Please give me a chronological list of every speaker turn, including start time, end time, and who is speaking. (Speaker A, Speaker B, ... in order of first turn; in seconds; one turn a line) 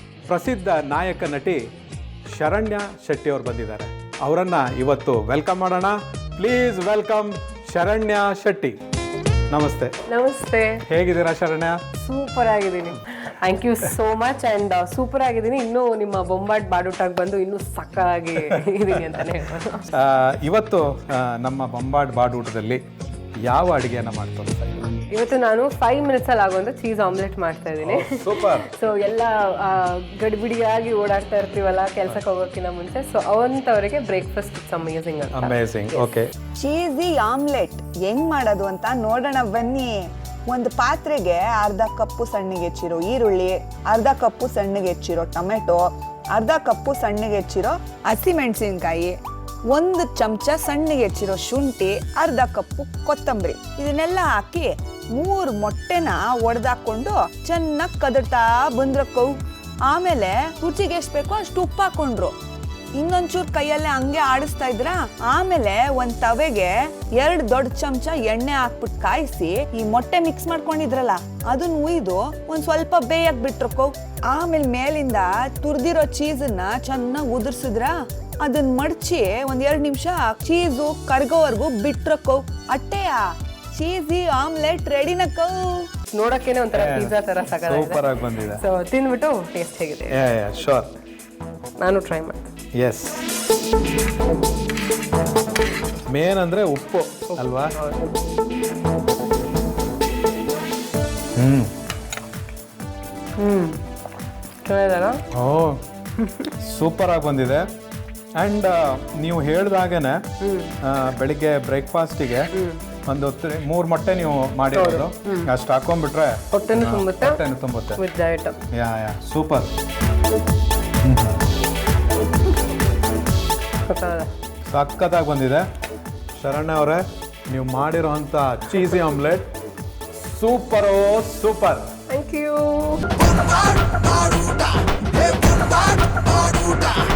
Speaker A: 0.3-1.6
Speaker A: 2.3-8.8
Speaker A: 9.5-9.9
Speaker B: 10.1-10.8
Speaker A: 10.8-11.8
Speaker B: 12.0-19.9
Speaker A: 19.9-22.8
Speaker A: 23.4-24.8
Speaker B: 25.1-36.1
Speaker A: 27.8-28.7
Speaker A: 35.3-36.3
Speaker C: 36.6-49.2
Speaker C: 49.7-62.4
Speaker C: 63.0-85.9
Speaker B: 86.1-90.2
Speaker A: 86.7-88.6
Speaker A: 90.1-90.9
Speaker B: 91.8-92.5
Speaker A: 92.8-93.2
Speaker A: 96.1-97.8
Speaker B: 97.4-98.1
Speaker A: 101.4-101.7
Speaker B: 103.4-103.8
Speaker B: 104.6-105.2
Speaker A: 105.3-105.8
Speaker B: 106.2-106.5
Speaker A: 106.6-107.7
Speaker A: 108.4-110.2
Speaker B: 110.4-110.7
Speaker A: 110.8-112.5
Speaker B: 112.5-112.8
Speaker A: 113.1-118.0
Speaker B: 114.7-115.5
Speaker B: 116.5-117.4
Speaker B: 118.0-118.6
Speaker A: 118.7-119.7
Speaker A: 121.0-121.4
Speaker B: 123.9-124.3
Speaker A: 124.7-125.7
Speaker A: 126.3-129.5
Speaker A: 130.2-131.9
Speaker B: 132.1-133.5
Speaker B: 134.2-134.6
Speaker B: 135.2-136.9